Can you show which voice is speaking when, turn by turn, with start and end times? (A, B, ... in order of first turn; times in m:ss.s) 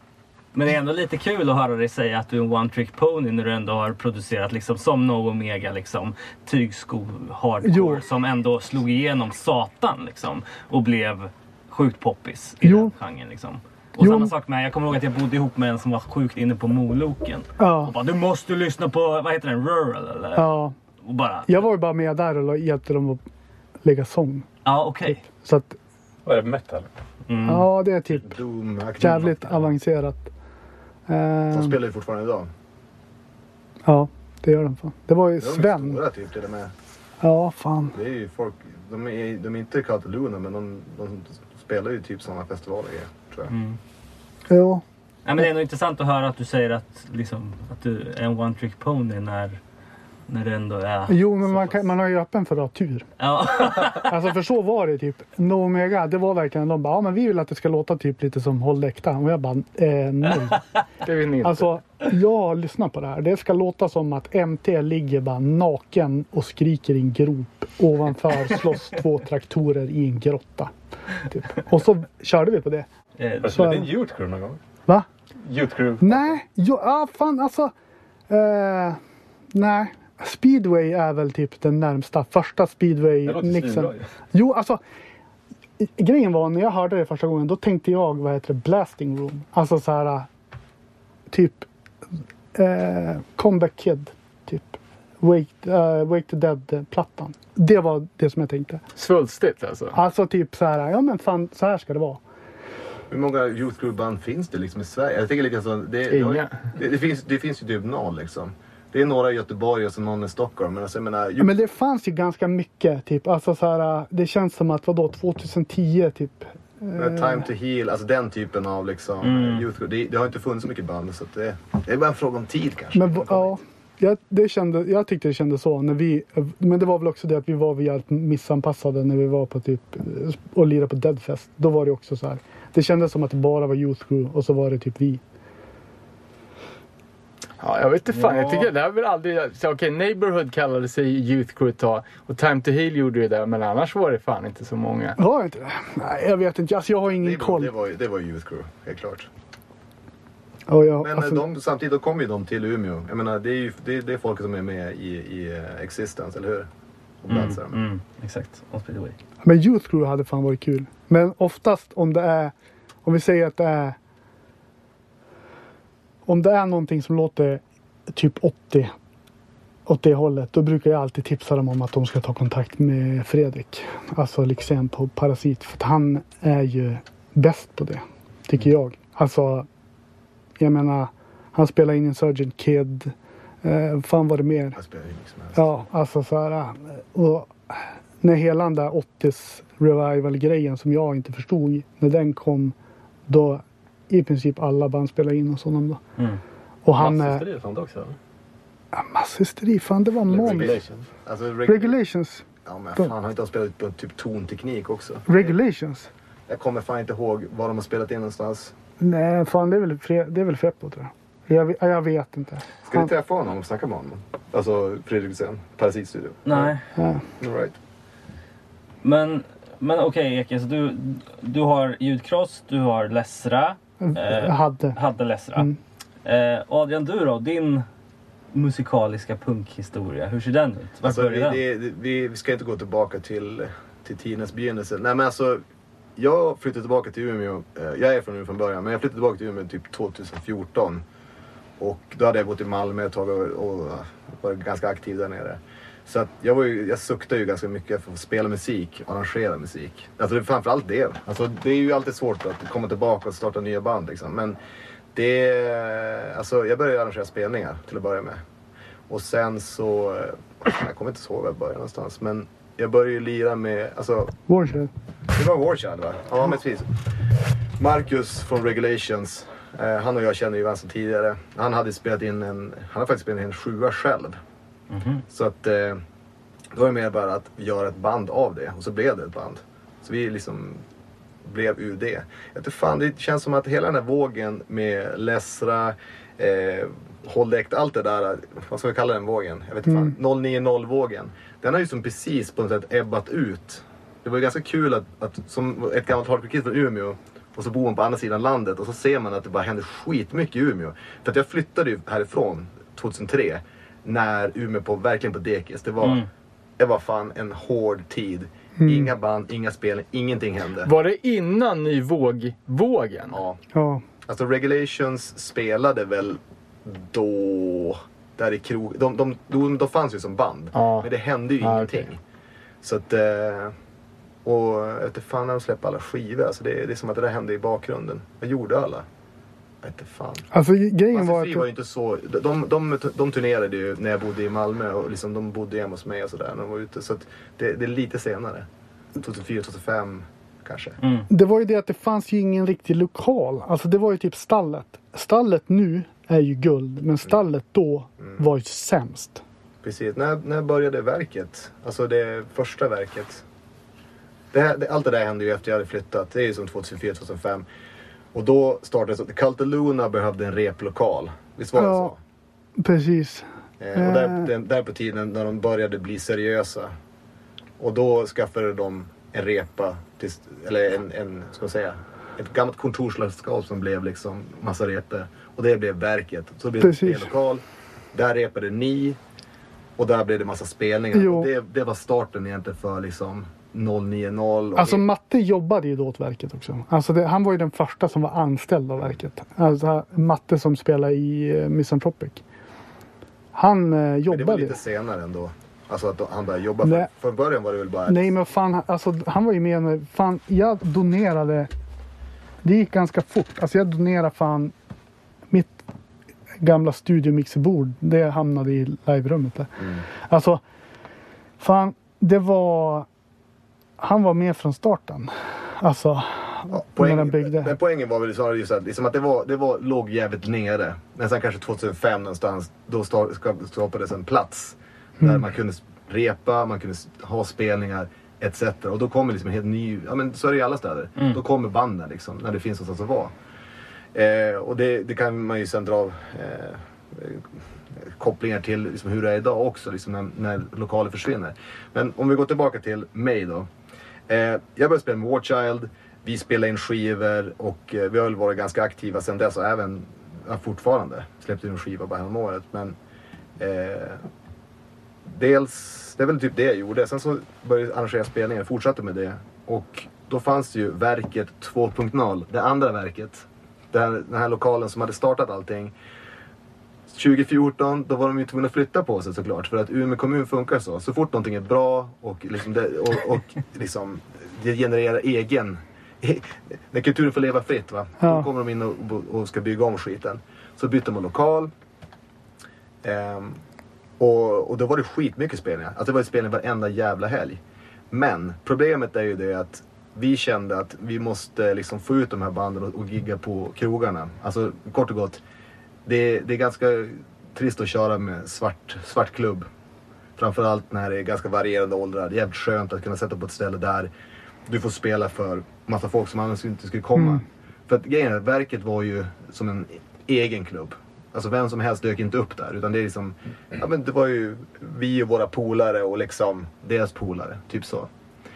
0:00.5-0:20.5 A
0:07.6-0:08.0 B
0:12.6-0:12.9 B
0:14.0-0:14.3 B
0:17.6-0:17.9 B
0:20.3-0:20.7 B
0:21.0-0:21.5 A
0:21.5-0:23.2 B
0:23.8-0:24.5 B
0:24.6-0:25.2 A
0:25.1-0:25.8 B
0:26.2-0:26.9 C
0:27.3-0:27.7 A
0:27.4-0:28.4 B
0:28.1-0:29.7 D
0:29.0-0:30.3 B
0:31.1-0:31.8 B
0:31.5-0:32.5 D
0:33.8-0:36.0 B
0:35.4-0:36.7 D
0:37.2-0:37.9 B
0:37.9-0:43.5 D
0:43.5-0:43.8 A
0:44.5-0:44.8 B
0:45.2-0:49.6 A
0:50.3-0:51.9 A
0:51.1-0:53.1 B
0:53.2-0:54.1 A
0:53.9-1:00.6 B
1:01.0-1:01.7 E
1:01.4-1:10.7 B
1:11.3-1:12.9 B
1:13.2-1:13.6 A
1:13.4-1:14.6 C
1:13.5-1:13.9 B
1:15.4-1:16.4 C
1:16.0-1:17.7 B
1:18.3-1:19.0 B
1:19.5-1:24.8 B
1:23.2-1:24.0 C
1:25.8-1:30.3 B
1:31.3-1:31.7 B
1:32.5-1:38.8 B
1:39.0-1:40.0 E
1:39.9-1:42.2 B
1:43.1-1:51.5 D
1:46.1-1:46.6 E
1:51.4-1:57.5 B
1:57.0-2:03.6 D
1:59.2-1:59.6 A
2:02.9-2:15.2 B
2:17.6-2:25.2 E
2:18.1-2:18.6 A
2:25.2-2:27.7 B
2:27.1-2:29.3 D
2:30.7-2:31.4 B
2:31.0-2:36.7 D
2:37.2-2:37.8 D
2:37.3-2:39.2 A
2:39.4-2:42.5 B
2:43.0-2:44.0 B
2:46.2-2:48.9 B
2:49.9-2:59.6 B
3:00.6-3:04.8 B
3:04.8-3:05.8 D
3:05.5-3:12.7 B
3:13.3-3:16.0 B
3:16.8-3:17.4 B
3:16.9-3:18.2 C
3:18.9-3:20.7 B
3:20.3-3:21.0 C
3:20.3-3:22.0 D
3:21.6-3:22.4 B
3:22.6-3:25.5 D
3:25.3-3:26.1 B
3:26.5-3:28.7 D
3:29.0-3:33.1 B
3:32.8-3:36.7 D
3:36.4-3:36.8 A
3:37.0-3:37.2 B
3:37.4-3:37.8 D
3:39.0-3:45.7 A
3:44.0-3:45.0 B
3:46.2-3:47.8 A
3:48.5-3:51.6 A
3:51.0-3:55.6 D
3:56.2-4:01.0 D
4:01.8-4:14.6 D
4:15.1-4:18.4 D
4:19.1-4:24.3 D
4:24.5-4:24.9 B
4:25.3-4:27.0 D
4:27.8-4:34.4 D
4:34.9-4:35.2 A
4:35.3-4:36.0 D
4:36.7-4:40.8 D
4:41.4-5:06.2 D
4:49.9-4:50.1 B
5:06.0-5:06.3 A
5:06.8-5:10.9 D
5:08.8-5:09.1 B
5:10.8-5:13.4 E
5:13.3-5:13.6 D
5:13.7-5:14.0 B
5:14.3-5:22.2 D
5:20.7-5:21.1 E
5:21.6-5:22.1 E
5:22.8-5:23.7 D
5:24.4-5:29.0 D
5:29.8-5:30.4 D
5:30.5-5:31.6 B
5:31.1-5:41.0 D
5:41.0-5:41.3 A
5:41.3-5:49.4 B
5:49.8-5:53.4 D
5:54.5-5:57.6 D
5:58.3-6:02.2 D
6:01.8-6:02.1 B
6:02.8-6:04.5 B
6:03.8-6:06.9 D
6:07.8-6:17.6 D
6:16.8-6:17.3 B
6:18.1-6:19.2 D
6:20.0-6:25.0 D
6:21.1-6:21.5 B
6:24.8-6:32.4 B
6:33.5-6:34.8 B
6:34.3-6:38.3 D
6:36.8-6:37.1 B
6:38.1-6:41.7 B
6:42.6-6:44.7 B
6:45.5-6:45.8 B
6:46.6-6:50.6 B
6:49.8-6:50.0 D
6:51.6-6:53.0 B
6:54.0-6:57.7 B
6:56.7-7:13.3 D
7:14.1-7:17.5 D
7:18.0-7:23.7 D
7:24.3-7:32.9 D
7:33.6-7:34.2 D
7:35.3-7:45.9 D
7:47.1-8:01.7 D
7:58.2-7:58.5 B
8:03.0-8:03.6 D
8:04.2-8:07.6 D
8:08.1-8:15.4 D
8:16.0-8:19.7 D
8:20.4-8:24.1 D
8:24.7-8:38.1 D